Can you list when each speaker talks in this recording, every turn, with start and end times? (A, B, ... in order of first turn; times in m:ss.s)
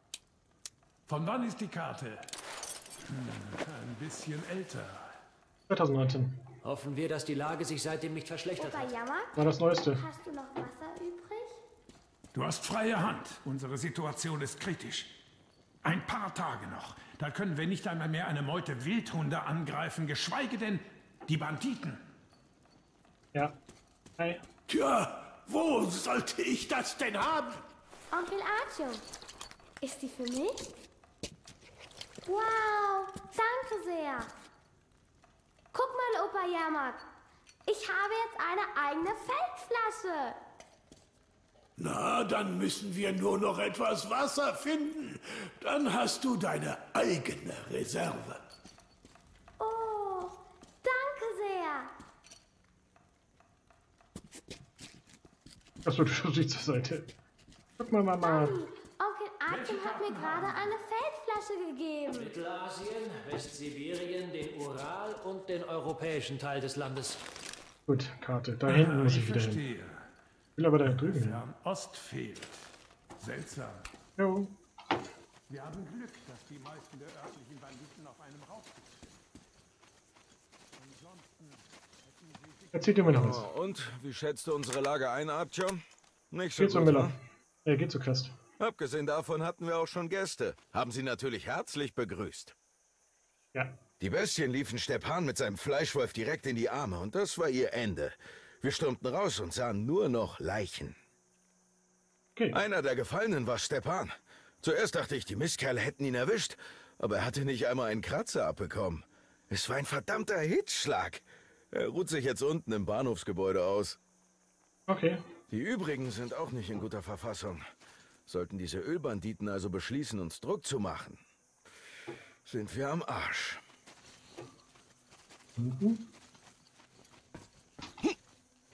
0:01.1-0:02.2 A
0:03.0-0:05.1 A
0:05.7-0:06.4 B
0:06.6-0:08.9 C
0:08.6-0:11.6 D
0:09.4-0:10.0 B
0:12.3-0:15.1 A
0:15.8-0:22.0 A
0:24.2-0:24.4 B
0:24.7-0:27.6 E
0:28.1-0:29.0 D
0:29.8-0:30.7 D
0:32.2-0:34.3 D
0:35.7-0:37.0 D
0:37.7-0:40.4 D
0:41.8-0:48.4 E
0:49.6-0:51.9 D
0:55.8-0:57.1 B
0:57.8-0:58.6 B
0:58.2-1:02.3 D
0:59.5-1:00.8 A
1:02.1-1:07.2 C
1:07.9-1:09.6 B
1:08.7-1:10.0 A
1:10.6-1:11.4 B
1:10.9-1:12.6 A
1:13.2-1:13.9 A
1:14.2-1:14.5 B
1:15.5-1:19.1 A
1:20.8-1:23.3 A
1:22.7-1:23.4 B
1:23.1-1:27.1 F
1:26.6-1:28.4 B
1:28.6-1:32.6 F
1:34.0-1:41.0 F
1:42.4-1:42.6 B
1:42.5-1:54.0 F
1:54.9-1:55.2 B
1:55.5-1:57.6 F
1:58.3-2:01.2 F
2:02.4-2:03.6 F
2:05.6-2:06.0 B